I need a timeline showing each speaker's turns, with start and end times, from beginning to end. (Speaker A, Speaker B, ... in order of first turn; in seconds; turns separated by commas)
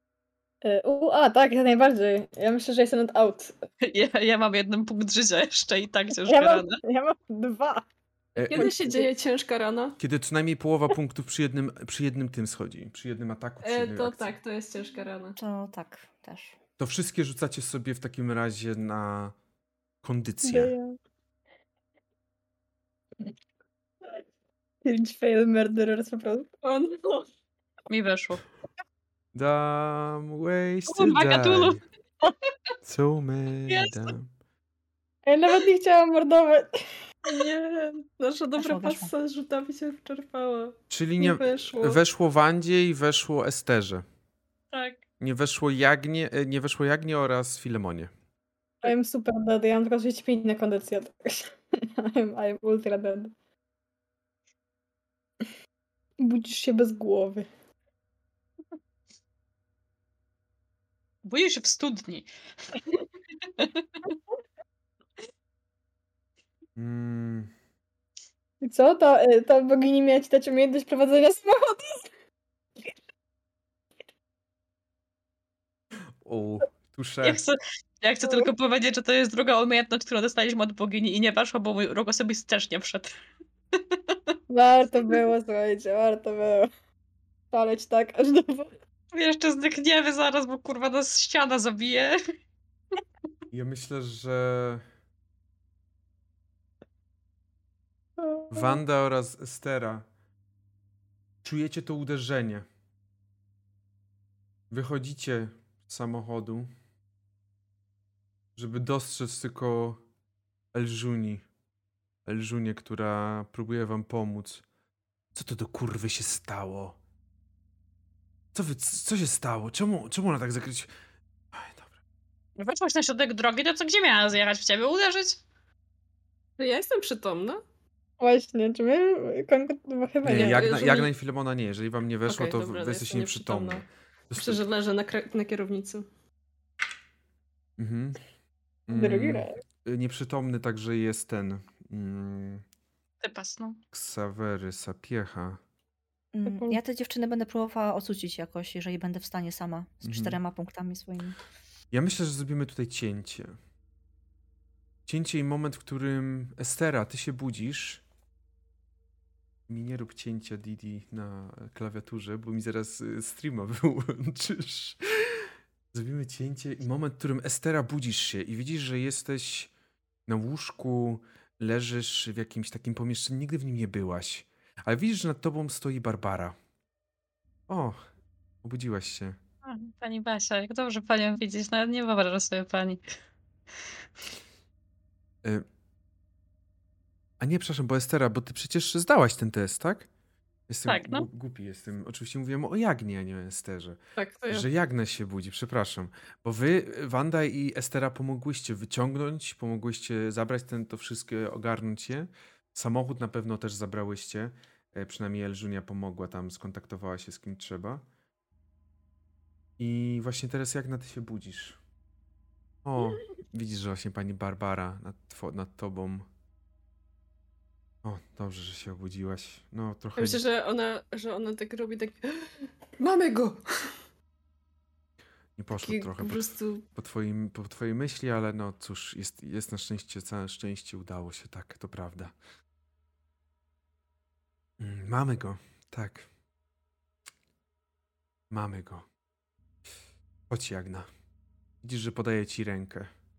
Speaker A: 0.6-3.5, Speaker B: 3.8-6.8, Speaker A: 6.2-7.8, Speaker C: 8.3-8.7, Speaker D: 8.5-10.0, Speaker A: 8.6-9.1, Speaker C: 10.0-14.3, Speaker D: 13.6-15.4, Speaker E: 15.4-16.6, Speaker C: 16.8-19.3, Speaker C: 20.0-20.7, Speaker A: 20.4-21.0, Speaker A: 24.8-26.5, Speaker D: 26.6-27.3, Speaker B: 27.9-28.4, Speaker C: 29.4-31.8, Speaker B: 30.9-31.8, Speaker C: 32.8-34.3, Speaker A: 35.3-36.7, Speaker D: 37.3-42.0, Speaker E: 38.6-39.1, Speaker C: 40.9-44.0, Speaker B: 44.7-45.0, Speaker C: 45.2-48.1, Speaker A: 48.8-53.3, Speaker A: 56.2-57.5, Speaker B: 61.2-62.8, Speaker B: 63.6-64.1, Speaker C: 66.8-67.5, Speaker A: 68.6-72.0, Speaker C: 76.2-77.4, Speaker B: 77.2-83.1, Speaker B: 83.9-84.3, Speaker A: 84.5-86.7, Speaker A: 87.5-88.7, Speaker B: 89.1-92.2, Speaker C: 93.5-94.8, Speaker A: 98.2-98.8, Speaker C: 98.5-100.1, Speaker C: 101.4-102.7, Speaker C: 104.7-106.7, Speaker C: 108.6-110.0, Speaker C: 110.7-111.5, Speaker C: 112.3-114.6, Speaker C: 115.3-117.0, Speaker C: 118.5-120.9, Speaker C: 121.5-121.9, Speaker B: 122.6-125.4, Speaker D: 126.6-127.6, Speaker A: 128.2-130.6, Speaker C: 130.2-134.6, Speaker D: 130.3-131.1, Speaker D: 132.3-136.1, Speaker C: 137.8-138.2, Speaker C: 138.9-142.6, Speaker A: 138.9-139.6, Speaker B: 143.2-143.8, Speaker C: 143.9-145.6, Speaker E: 146.3-151.4, Speaker C: 150.0-150.4, Speaker C: 151.9-153.6, Speaker C: 155.1-158.0, Speaker C: 159.7-169.7, Speaker C: 170.3-176.6, Speaker C: 177.7-178.0, Speaker C: 178.6-179.4, Speaker B: 179.7-183.0, Speaker C: 187.4-190.1, Speaker C: 190.7-194.0, Speaker B: 190.9-191.3, Speaker D: 194.2-194.7, Speaker C: 194.5-208.0, Speaker C: 209.8-211.8, Speaker C: 212.8-216.3, Speaker C: 218.0-220.4, Speaker D: 220.2-223.9, Speaker C: 225.6-226.4, Speaker D: 225.8-226.8, Speaker C: 226.9-232.3, Speaker C: 234.8-236.3, Speaker C: 238.5-239.1, Speaker C: 240.5-241.1, Speaker C: 241.8-243.1